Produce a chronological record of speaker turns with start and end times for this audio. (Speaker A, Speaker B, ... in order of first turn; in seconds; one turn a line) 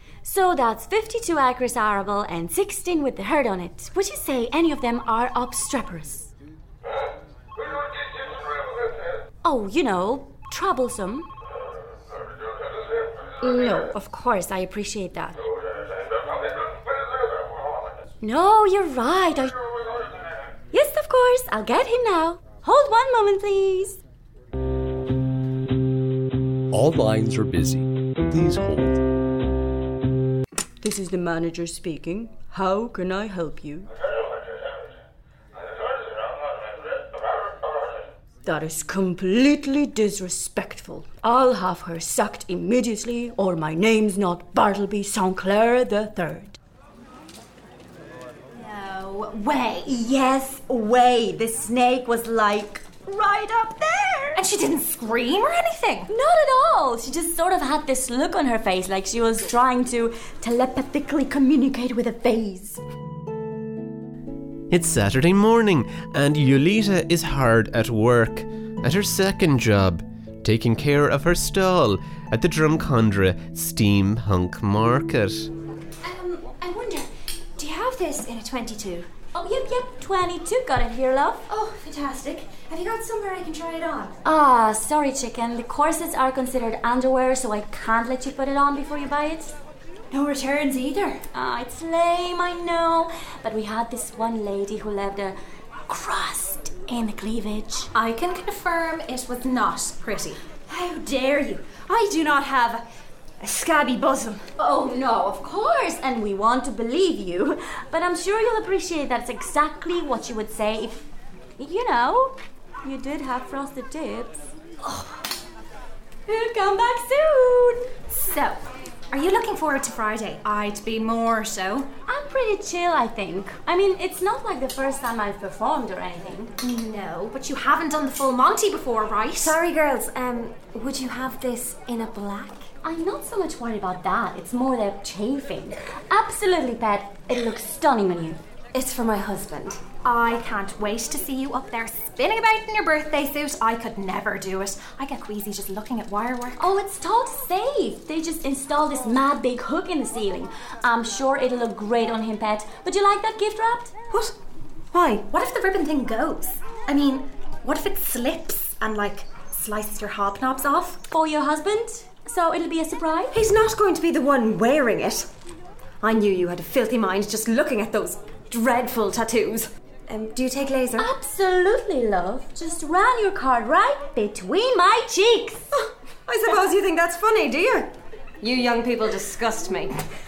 Speaker A: 0.2-6.3
Speaker A: 9.4-11.3
Speaker A: 13.4-15.4
Speaker A: 18.2-19.6
Speaker A: 20.7-24.0
Speaker B: 26.7-29.0
Speaker A: 30.8-33.9
Speaker A: 38.5-46.6
Speaker C: 48.5-49.9
Speaker A: 49.9-54.4
Speaker C: 54.3-56.1
Speaker A: 56.1-62.8
Speaker D: 64.7-75.5
Speaker C: 76.0-79.1
Speaker A: 79.3-81.5
Speaker C: 81.5-84.1
Speaker A: 84.2-89.5
Speaker C: 90.1-91.2
Speaker A: 91.3-95.4
Speaker A: 95.9-97.9
Speaker C: 97.9-102.8
Speaker C: 103.4-104.4
Speaker A: 104.6-111.1
Speaker A: 111.6-115.1
Speaker A: 116.3-118.0
Speaker C: 118.1-121.9
Speaker A: 122.1-126.5
Speaker C: 126.6-129.6
Speaker E: 129.4-132.7
Speaker A: 132.8-138.4
Speaker E: 138.7-139.9
Speaker C: 140.0-146.6
Speaker A: 146.6-153.9
Speaker C: 154.9-161.0
Speaker A: 161.1-163.4
Speaker E: 163.3-165.3
Speaker E: 166.0-171.1
Speaker A: 171.0-175.7
Speaker E: 176.3-180.0